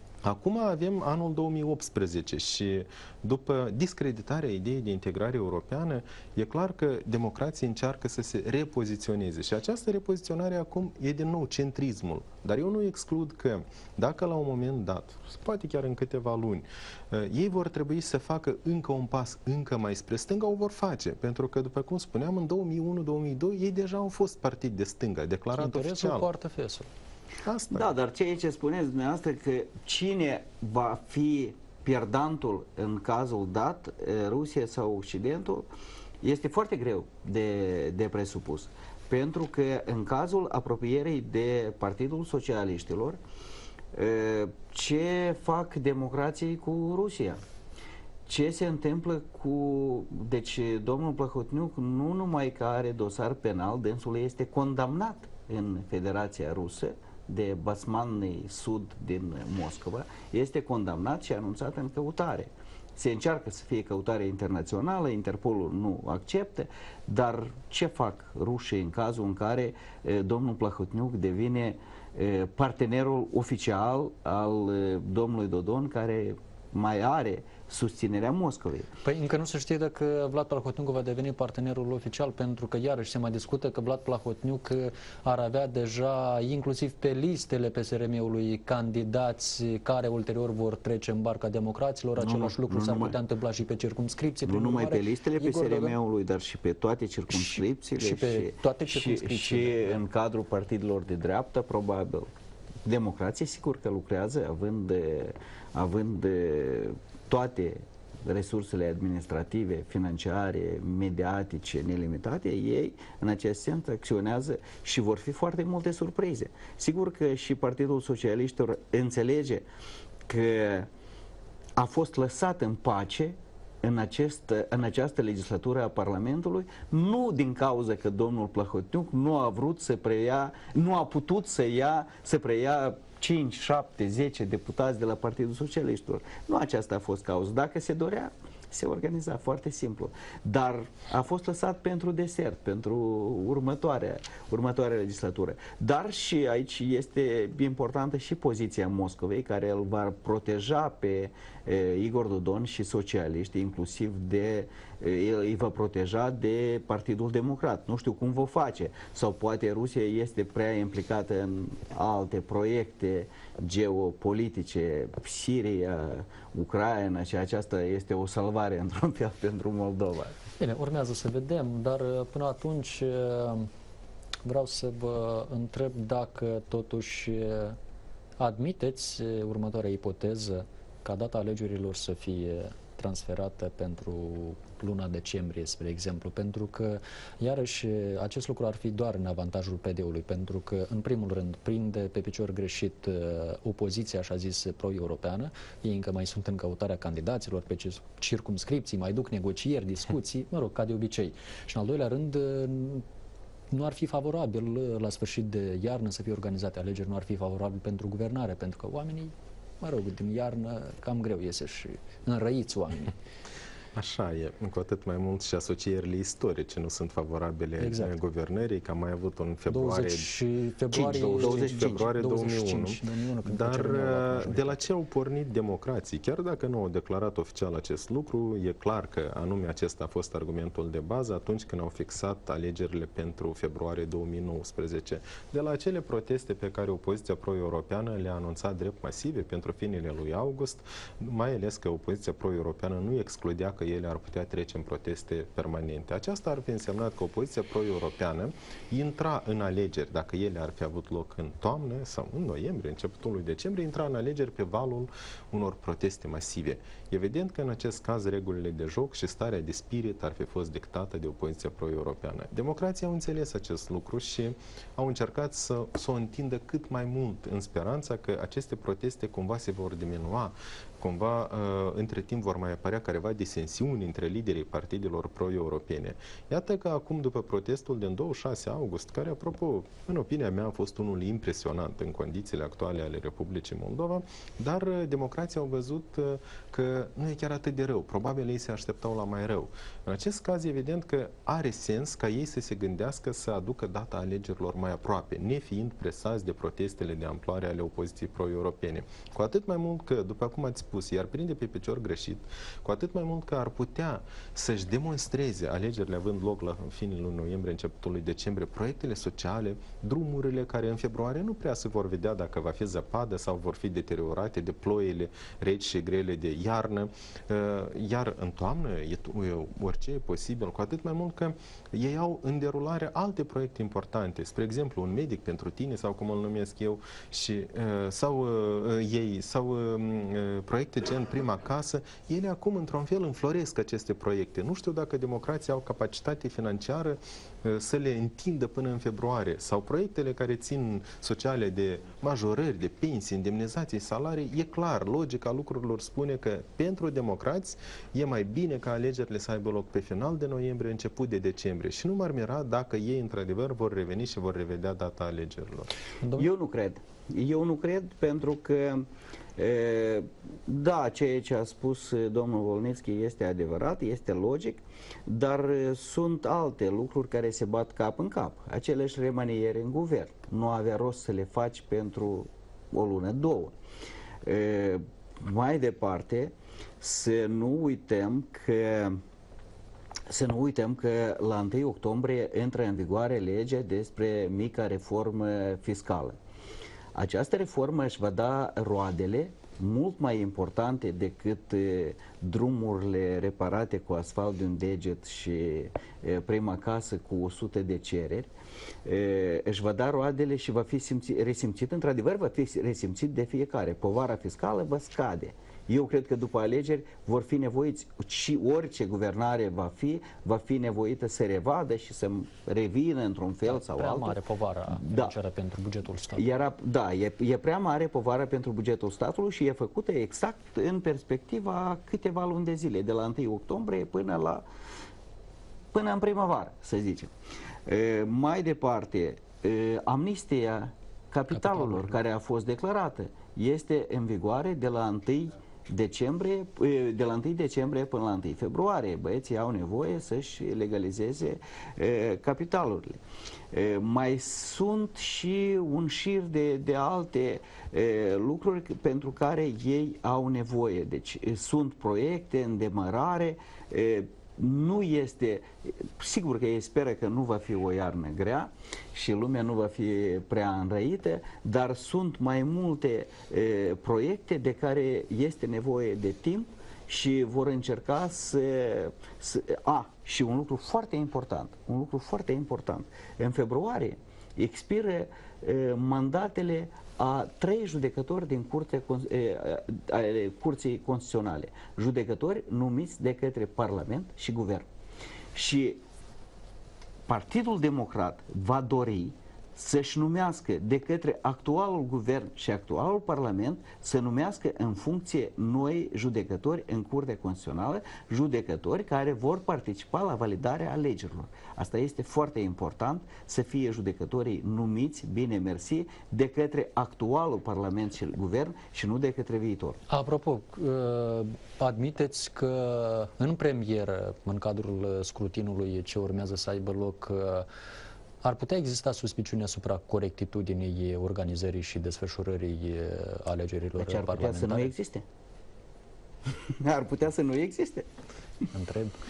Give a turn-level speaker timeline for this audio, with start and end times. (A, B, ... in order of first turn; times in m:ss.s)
0:00.2-0:26.3 A
0:25.5-0:26.9 B
0:27.4-0:27.9 A
0:27.7-0:35.7 C
0:36.2-0:43.2 C
0:43.9-0:47.4 C
0:48.3-1:18.9 C
1:19.0-1:35.9 B
1:32.2-1:33.2 C
1:34.4-1:42.3 C
1:37.3-1:40.0 B
1:42.8-1:59.6 C
2:00.3-2:00.9 C
2:01.8-2:50.4 C
2:50.6-2:53.7 B
2:54.4-2:57.8 B
2:58.4-3:23.0 B
3:23.7-3:33.1 B
3:34.0-3:40.3 A
3:37.8-3:38.2 B
3:39.7-3:44.8 B
3:40.9-5:55.9 A
3:41.0-3:42.1 C
5:56.2-5:56.5 B
5:56.4-6:13.7 C
6:14.4-6:19.2 C
6:20.3-6:26.4 C
6:27.2-6:38.5 C
6:39.0-6:55.3 C
6:53.7-6:56.6 B
6:56.4-7:04.6 C
7:05.9-7:07.3 C
7:07.9-7:23.2 C
7:11.5-7:12.2 B
7:23.7-8:04.9 C
8:05.6-8:06.0 C
8:07.3-8:30.0 C
8:30.1-8:37.7 B
8:38.4-8:44.9 B
8:44.0-8:45.2 C
8:46.6-8:48.1 C
8:48.7-8:49.2 B